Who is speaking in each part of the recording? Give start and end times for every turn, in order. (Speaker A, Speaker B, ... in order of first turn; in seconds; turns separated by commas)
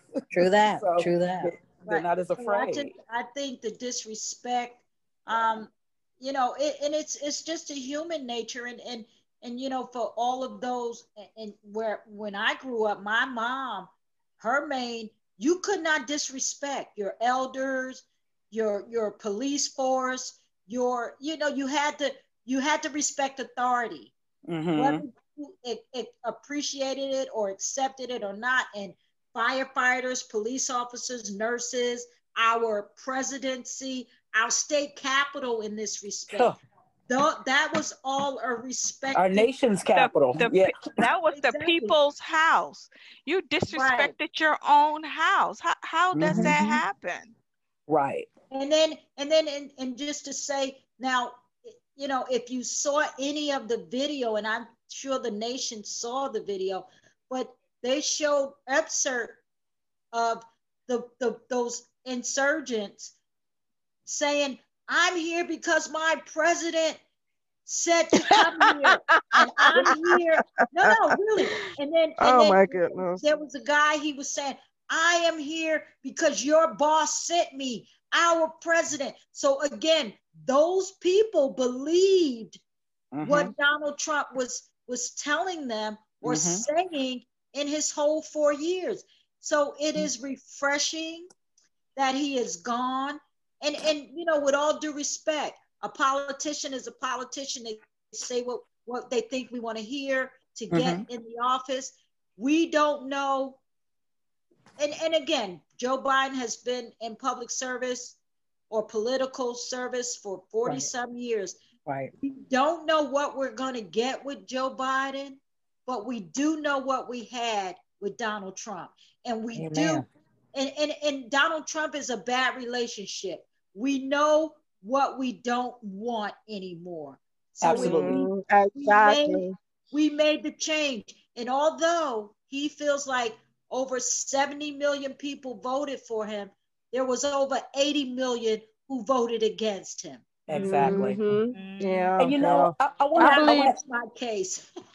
Speaker A: 0.1-2.9, Speaker B: 0.3-1.5, Speaker C: 1.9-24.1, Speaker A: 24.5-25.0, Speaker C: 24.8-36.5, Speaker A: 36.3-36.6, Speaker C: 37.1-39.5, Speaker A: 39.1-40.7, Speaker D: 39.9-47.3, Speaker C: 41.3-42.0, Speaker C: 43.7-44.1, Speaker A: 46.1-46.8, Speaker B: 46.3-46.5, Speaker A: 47.9-48.3, Speaker C: 48.5-59.4, Speaker C: 60.1-63.1, Speaker C: 64.1-67.0, Speaker C: 67.7-82.6, Speaker E: 68.4-70.2, Speaker E: 70.9-73.2, Speaker A: 83.1-83.5, Speaker C: 83.2-91.3, Speaker A: 86.2-86.7, Speaker C: 92.0-103.6, Speaker A: 100.7-101.0, Speaker C: 104.8-108.2, Speaker C: 108.7-111.6, Speaker B: 111.9-112.1, Speaker C: 112.2-120.0, Speaker B: 119.5-120.0, Speaker C: 120.5-140.2, Speaker A: 127.6-128.2, Speaker E: 127.7-129.6, Speaker A: 140.5-141.2, Speaker E: 140.5-143.8, Speaker D: 141.5-142.2, Speaker A: 142.2-143.8, Speaker C: 143.2-144.7